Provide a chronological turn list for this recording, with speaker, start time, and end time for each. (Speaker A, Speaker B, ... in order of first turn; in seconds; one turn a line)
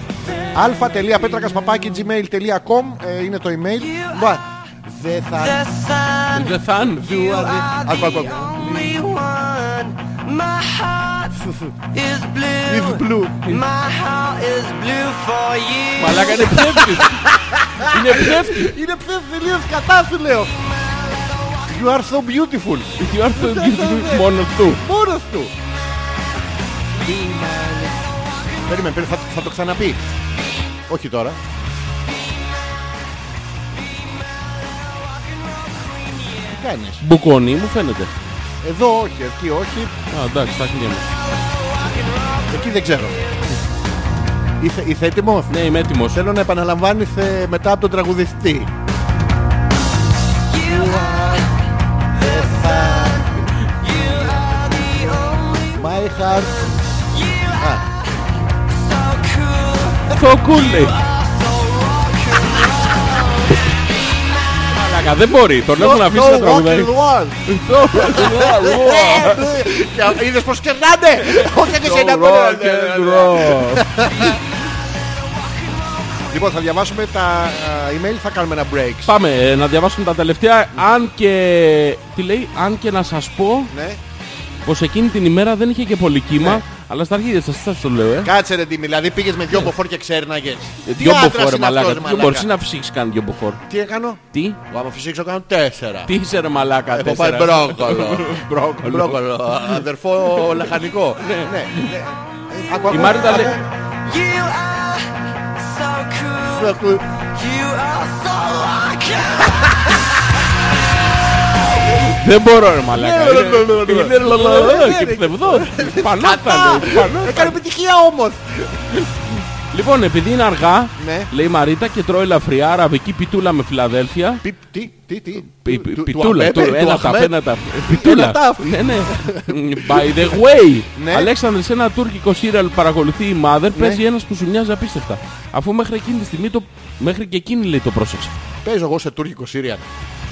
Speaker A: 0.6-5.7
Speaker B: 3.8-4.4
Speaker B: 5.4-11.4
Speaker C: 6.3-7.1
Speaker A: 6.9-9.0
Speaker A: 11.3-11.8
Speaker B: 11.9-16.6
Speaker A: 12.7-13.5
Speaker C: 16.0-17.3
Speaker A: 16.4-20.5
Speaker C: 17.8-18.7
Speaker B: 21.1-21.6
Speaker A: 21.7-25.5
Speaker C: 23.0-24.8
Speaker A: 27.0-28.0
Speaker A: 28.7-30.0
Speaker A: 30.9-31.4
Speaker B: 34.2-36.5
Speaker A: 36.5-37.0
Speaker C: 37.0-38.1
Speaker A: 38.6-39.9
Speaker C: 40.1-41.1
Speaker B: 41.4-42.5
Speaker A: 42.5-43.2
Speaker A: 44.6-48.7
Speaker C: 45.5-46.2
Speaker B: 50.5-51.5
Speaker A: 50.6-51.5
Speaker A: 52.1-53.4
Speaker B: 52.2-58.1
Speaker A: 55.7-56.8
Speaker A: 57.6-57.9
Speaker B: 58.7-60.2
Speaker C: 60.1-61.0
Speaker B: 60.7-64.7
Speaker C: 64.7-66.9
Speaker A: 65.8-74.4
Speaker C: 67.5-69.5
Speaker C: 71.2-74.1
Speaker A: 76.3-79.1
Speaker C: 79.1-83.7
Speaker A: 83.7-84.0
Speaker C: 84.7-88.3
Speaker A: 88.2-92.5
Speaker C: 90.8-93.6
Speaker A: 93.7-96.1
Speaker C: 94.3-94.6
Speaker C: 96.1-99.8
Speaker A: 96.8-103.7
Speaker C: 101.2-101.9
Speaker B: 102.4-103.4
Speaker C: 102.9-103.5
Speaker B: 104.0-106.8
Speaker A: 106.4-107.0
Speaker B: 107.3-110.1
Speaker C: 112.0-117.6
Speaker A: 112.9-118.9
Speaker C: 119.7-124.4
Speaker A: 121.0-121.3
Speaker A: 124.4-130.3
Speaker C: 125.5-138.3
Speaker A: 130.9-131.3
Speaker A: 133.7-134.0
Speaker A: 138.6-139.9